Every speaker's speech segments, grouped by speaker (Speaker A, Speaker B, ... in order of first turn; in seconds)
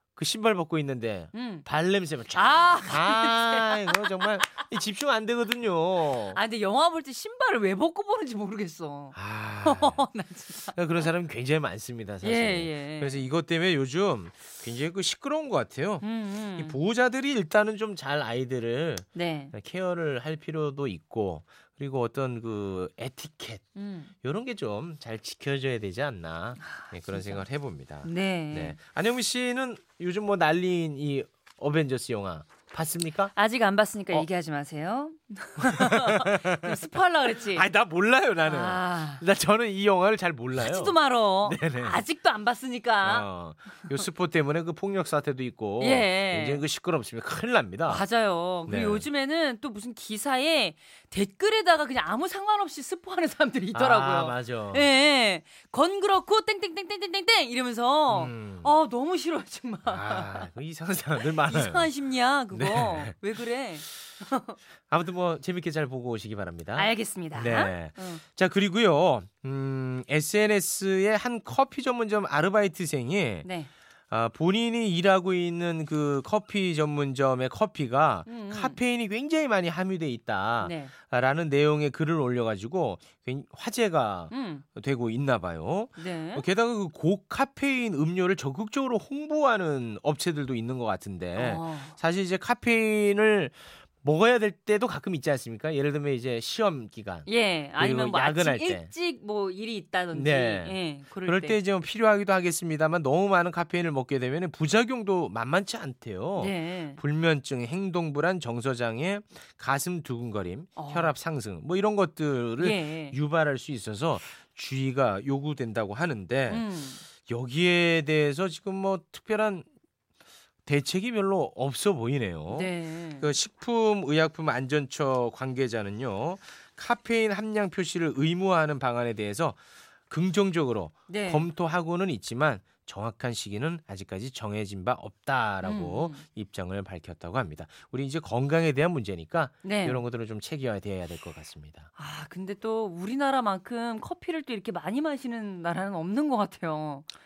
Speaker A: 0.1-6.4, 9.1-10.1, 10.7-16.0, 16.6-23.6, 24.2-33.3, 35.6-36.8, 37.4-42.0, 43.0-48.0, 48.6-49.0, 53.7-54.9, 58.1-58.7, 59.9-61.9, 62.5-63.1, 64.9-73.5, 74.1-98.9, 100.1-116.6, 117.3-119.7, 120.7-141.9
Speaker B: 1.3-1.6, 2.3-4.4, 6.3-10.8, 12.2-13.2, 16.0-16.8, 19.1-19.5, 23.8-24.1, 26.6-27.4, 28.0-28.8, 33.4-37.6, 38.4-39.2, 40.6-43.3, 45.8-46.6, 47.9-60.4, 61.2-64.5, 66.8-68.2, 73.4-73.7, 78.3-78.8, 80.6-80.9, 84.3-84.6, 86.0-86.4, 91.3-92.0, 97.2-101.6, 106.4-107.0, 110.8-111.1, 112.6-113.2, 116.5-117.0, 122.5-123.3, 131.1-131.5, 135.6-136.2, 139.6-140.0, 142.0-147.1